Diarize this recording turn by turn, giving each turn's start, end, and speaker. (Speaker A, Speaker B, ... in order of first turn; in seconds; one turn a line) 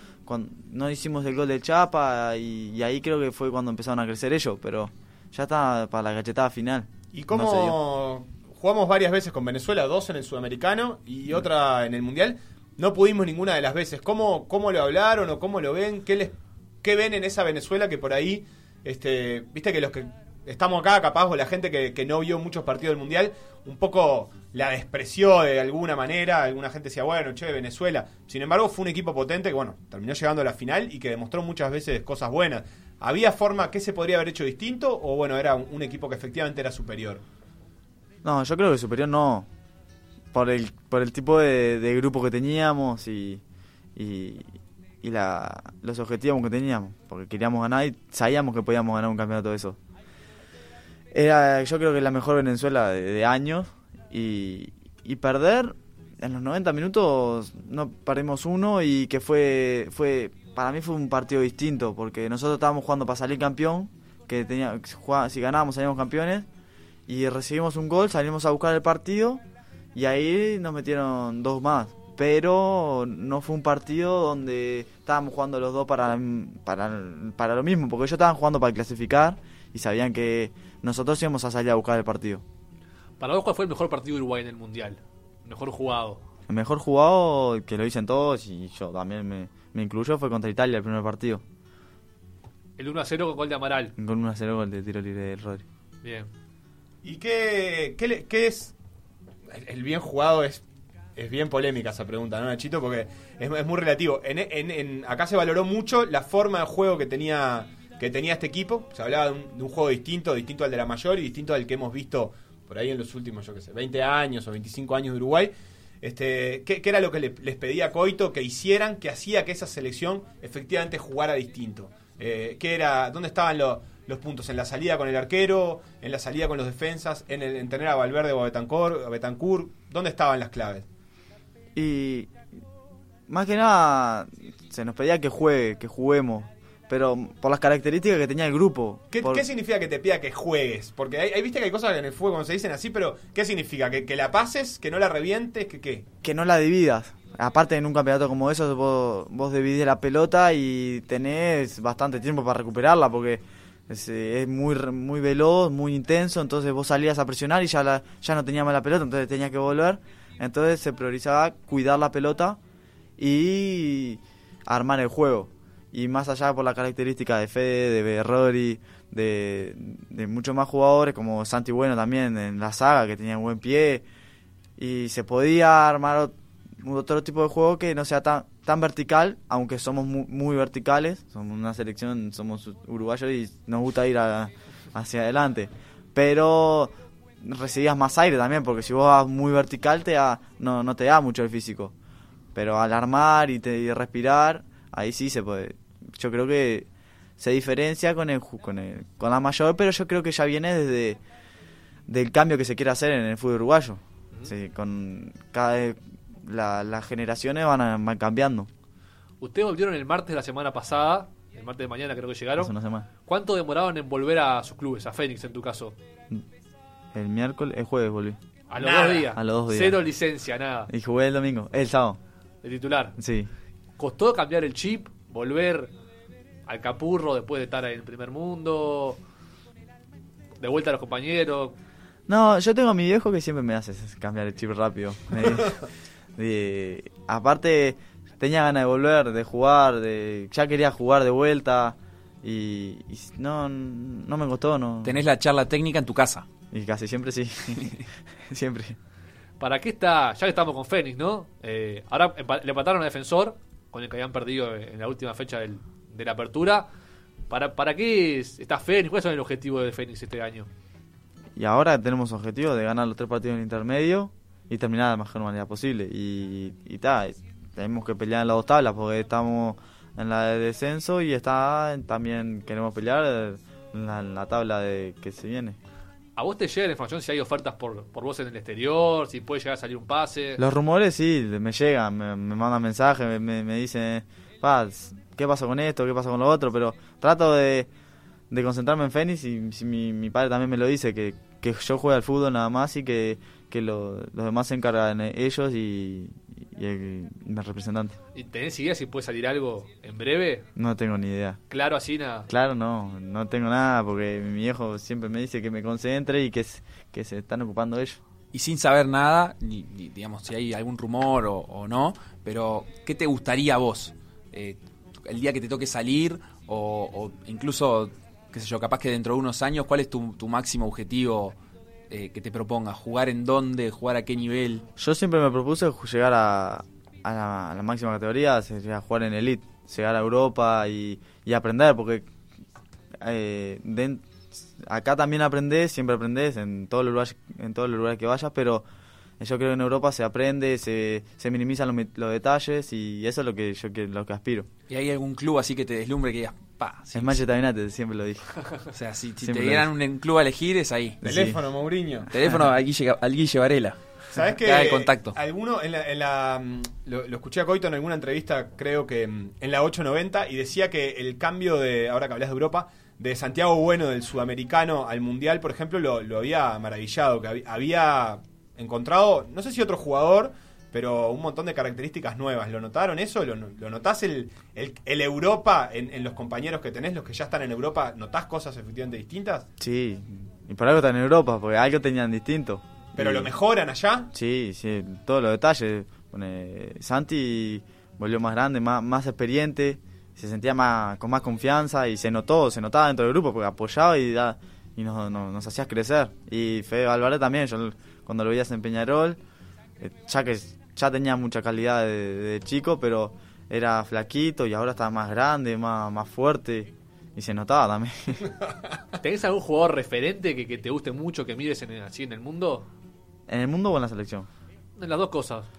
Speaker A: 0.2-7.8
Speaker B: 7.1-37.2
Speaker A: 38.2-39.5
Speaker A: 40.3-43.4
Speaker A: 44.0-49.8
Speaker A: 51.1-66.5
Speaker A: 67.1-69.4
Speaker A: 69.9-82.4
Speaker C: 83.2-86.2
Speaker A: 86.5-91.4
Speaker C: 92.8-93.9
Speaker A: 94.0-95.6
Speaker C: 96.0-96.3
Speaker B: 97.0-98.7
Speaker B: 99.5-100.6
Speaker B: 101.2-130.8
Speaker A: 131.8-132.3
Speaker A: 133.3-139.4
Speaker B: 139.1-146.0
Speaker A: 146.2-162.6
Speaker A: 163.2-174.0
Speaker A: 174.8-191.9
Speaker A: 192.5-196.9
Speaker A: 197.4-201.2
Speaker A: 202.1-208.7
Speaker C: 209.4-212.7
Speaker A: 212.6-213.1
Speaker C: 213.2-215.9
Speaker A: 217.1-218.4
Speaker C: 218.7-220.9
Speaker B: 218.8-219.3
Speaker A: 219.3-220.0
Speaker A: 220.9-222.2
Speaker C: 222.6-223.1
Speaker A: 223.2-223.5
Speaker C: 224.0-225.9
Speaker C: 226.7-229.2
Speaker C: 230.6-231.8
Speaker A: 232.3-235.8
Speaker A: 236.4-245.2
Speaker D: 245.0-246.4
Speaker A: 246.7-249.0
Speaker C: 249.6-256.9
Speaker C: 257.5-260.7
Speaker A: 261.6-275.8
Speaker C: 276.4-280.6
Speaker A: 280.6-287.9
Speaker A: 288.5-298.2
Speaker C: 298.3-300.7
Speaker A: 300.8-301.6
Speaker C: 301.7-302.5
Speaker A: 302.5-308.2
Speaker D: 308.5-321.5
Speaker D: 322.1-324.8
Speaker A: 325.0-332.3
Speaker A: 333.2-338.8
Speaker A: 339.4-344.7
Speaker D: 344.9-347.4
Speaker A: 347.1-348.6
Speaker D: 348.9-351.2
Speaker A: 349.4-349.9
Speaker A: 351.2-351.6
Speaker B: 351.2-352.3
Speaker D: 352.3-355.4
Speaker B: 354.3-379.7
Speaker A: 379.8-383.5
Speaker B: 383.2-384.3
Speaker A: 384.3-399.4
Speaker A: 400.0-408.5
Speaker C: 409.2-412.9
Speaker A: 413.5-414.5
Speaker C: 415.0-415.7